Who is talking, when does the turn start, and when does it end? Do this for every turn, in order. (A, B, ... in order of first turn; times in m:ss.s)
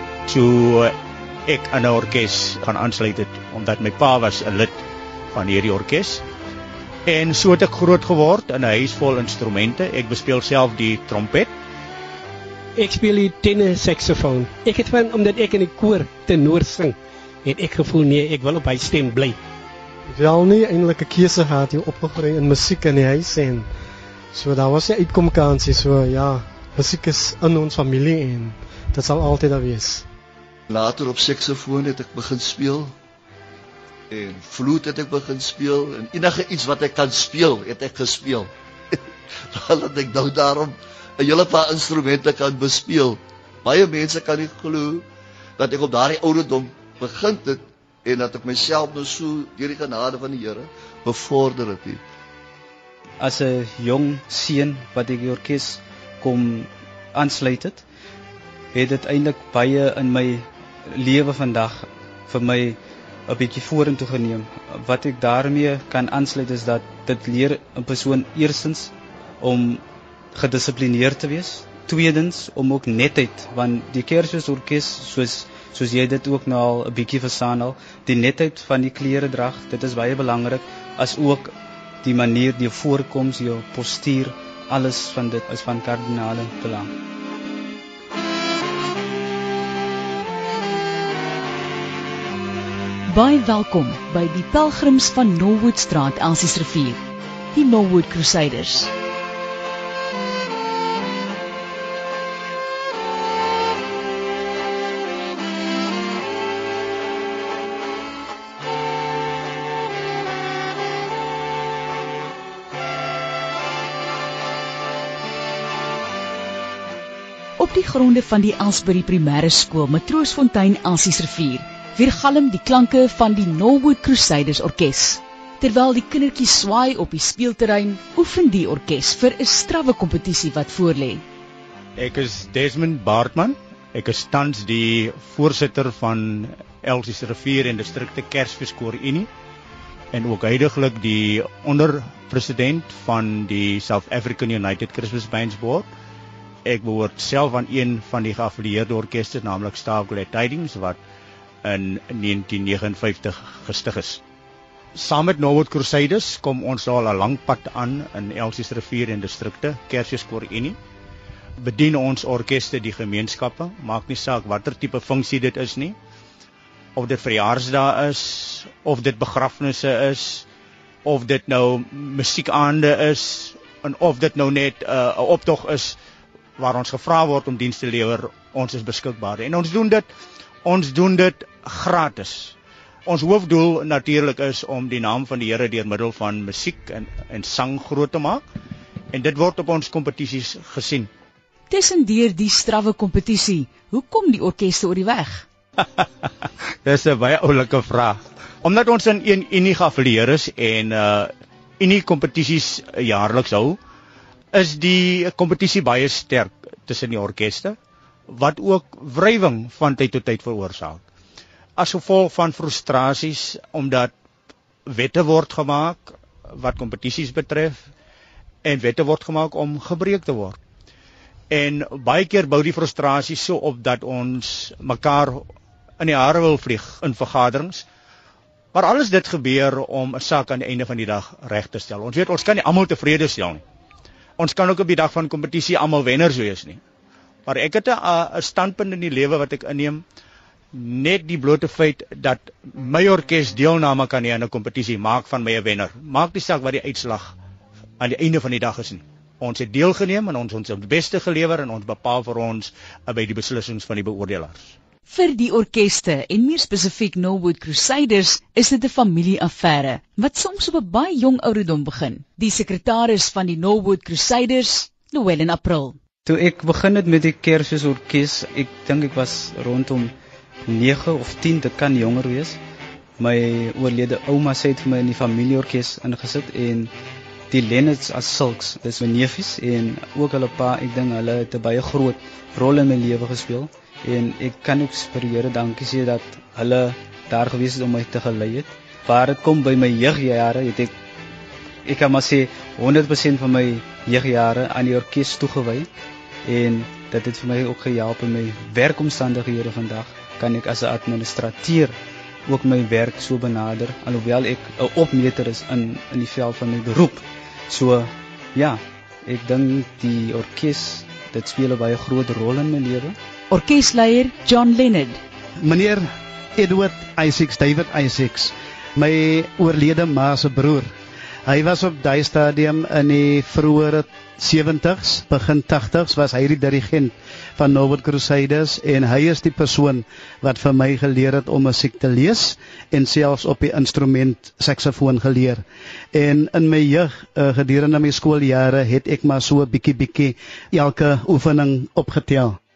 0:00.3-0:00.9 A
0:01.5-0:04.8 A
0:05.3-0:06.2 A
0:07.1-0:11.5 A
0:12.8-0:19.4 B
0:20.1-0:23.7 C
0:24.3-0:30.0 C
0:30.7-0:32.9 D
0:34.1-0:45.0 D
0:45.6-0:52.0 D
0:53.2-0:57.8 E
0:58.7-1:09.8 E
1:10.3-1:26.9 E
1:33.1-1:37.0 F
1:37.5-1:38.9 F
1:57.6-2:11.2 F
2:12.0-2:19.3 A
2:20.1-2:25.9 A
2:26.6-2:31.0 A
2:31.6-2:34.2 A
2:34.9-2:40.8 A
2:41.6-2:46.0 A
2:47.0-2:50.4 A
2:51.0-2:56.0 A
2:56.6-3:00.1 A
3:00.6-3:02.5 A
3:03.1-3:08.4 A
3:09.1-3:11.1 A
3:11.7-3:15.4 F
3:16.8-3:23.8 A
3:24.5-3:27.8 A
3:28.3-3:31.0 A
3:31.8-3:34.1 A
3:34.9-3:37.8 A
3:38.6-3:40.6 A
3:41.5-3:45.4 A
3:46.0-3:47.8 A
3:48.7-3:53.6 A
3:54.4-3:56.8 A
3:57.4-4:00.0 A
4:00.7-4:07.3 A
4:08.0-4:14.7 A
4:15.1-4:26.0 F
4:26.2-4:30.1 E
4:30.6-4:32.6 E
4:33.2-4:36.9 E
4:37.5-4:50.9 E
4:51.9-4:55.9 E
4:56.4-5:02.0 E
5:02.5-5:13.2 E
5:13.5-5:15.2 F
5:15.6-5:20.9 G
5:21.4-5:42.6 G